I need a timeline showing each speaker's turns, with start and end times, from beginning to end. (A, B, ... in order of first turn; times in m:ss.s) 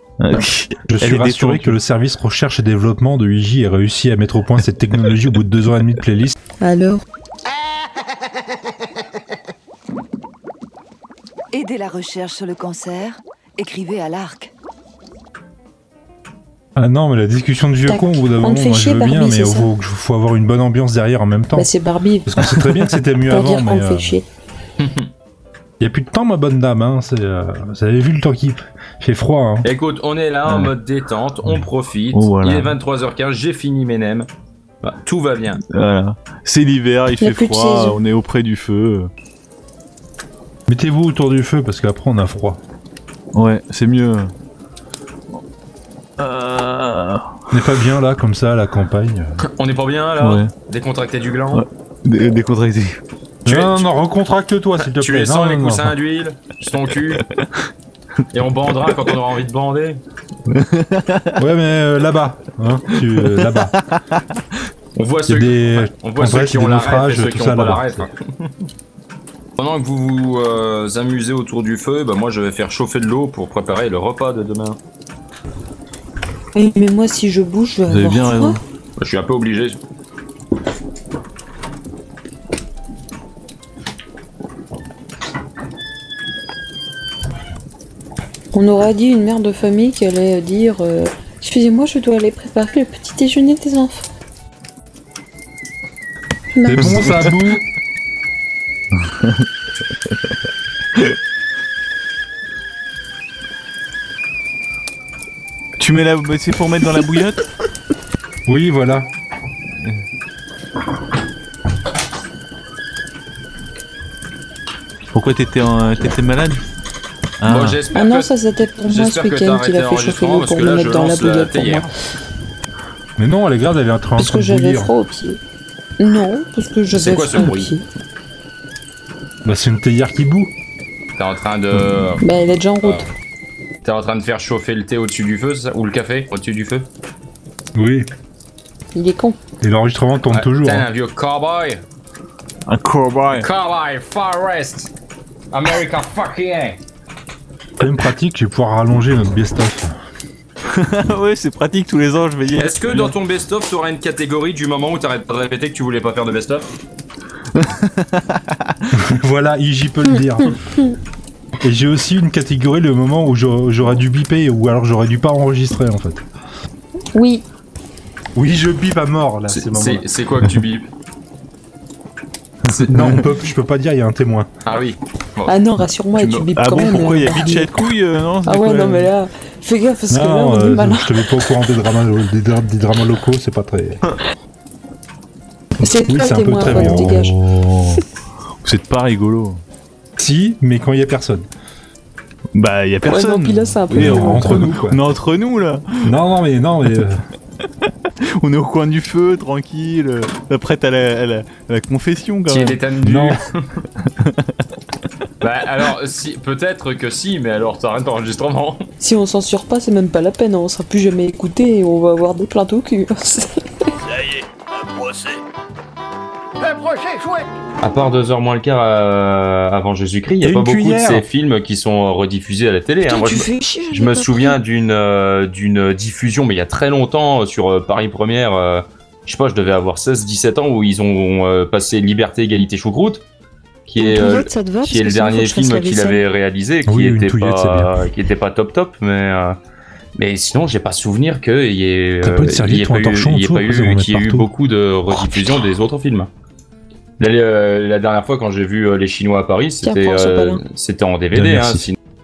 0:00.2-0:01.8 A
0:00.9-0:06.3 B
0:06.6-0:07.0 C
0:11.5-0:14.5 D
0:16.8-0:21.7 B
0:17.8-0:19.7 C
0:21.5-0:24.2 C
0:22.2-0:24.2 B
0:24.8-0:25.1 E
0:25.8-0:29.7 B
0:29.6-0:34.3 E
0:32.1-0:32.8 A
0:34.8-0:35.6 E
0:35.7-0:39.1 A
0:37.2-0:38.0 C
0:40.7-0:42.6 B
0:43.3-0:44.3 A
0:46.2-0:47.4 A
0:47.5-0:49.4 B
0:49.5-0:51.6 E
0:50.2-0:50.5 A
0:51.5-0:53.0 A
0:53.4-0:53.9 E
0:53.4-0:55.9 B
0:54.9-0:57.2 E
0:58.3-1:00.0 E
1:00.5-1:01.4 A
1:01.4-1:03.7 B
1:02.9-1:04.0 A
1:05.0-1:08.5 E
1:05.3-1:08.1 B
1:09.6-1:14.8 E
1:16.5-1:18.6 C
1:17.9-1:18.6 A
1:19.0-1:19.8 E
1:28.5-1:34.0 C
1:36.5-1:37.1 C
1:36.7-1:37.6 B
1:36.7-1:37.6 A
1:45.8-1:47.5 A
1:48.4-1:49.1 B
1:55.1-1:56.6 A
1:57.4-1:57.8 A
1:57.5-1:58.3 E
1:57.9-2:01.9 C
1:58.8-2:01.9 E
2:03.2-2:04.9 B
2:04.2-2:05.4 C
2:06.0-2:07.8 C
2:06.9-2:07.7 E
2:09.4-2:10.5 B
2:11.2-2:12.2 E
2:12.2-2:13.0 C
2:13.8-2:16.9 E
2:17.7-2:18.1 B
2:18.9-2:19.4 C
2:19.6-2:20.9 B
2:20.3-2:21.8 E
2:22.7-2:23.5 A
2:23.4-2:24.9 E
2:25.5-2:26.8 E
2:27.8-2:29.9 B
2:30.7-2:33.1 A
2:32.5-2:36.6 E
2:37.5-2:38.4 A
2:38.9-2:40.5 B
2:40.4-2:40.9 C
2:41.6-2:46.2 B
2:47.1-2:47.4 C
2:48.3-2:50.0 B
2:49.5-2:50.8 E
2:52.7-2:53.2 E
2:52.9-2:53.2 A
2:52.9-2:54.5 B
2:54.6-2:55.5 E
2:55.4-2:57.7 C
2:56.2-2:56.5 E
2:56.6-2:59.1 A
2:58.4-3:01.2 C
3:00.1-3:04.0 B
3:05.8-3:07.3 C
3:06.1-3:07.3 B
3:06.1-3:08.0 A
3:08.6-3:09.6 A
3:10.2-3:11.5 B
3:12.6-3:16.0 A
3:13.0-3:14.7 C
3:13.9-3:15.0 B
3:16.0-3:17.2 B
3:18.4-3:23.3 A
3:22.5-3:23.6 E
3:23.0-3:23.3 B
3:24.0-3:24.3 A
3:25.4-3:28.8 E
3:29.0-3:33.9 C
3:37.8-3:53.2 E
3:40.4-3:41.2 B
3:43.0-3:44.6 C
3:53.9-3:59.6 E
3:54.0-3:56.2 C
3:56.8-3:57.9 B
4:00.2-4:06.3 E
4:02.2-4:04.5 B
4:07.2-4:11.9 E
4:09.8-4:10.6 C
4:11.3-4:11.9 B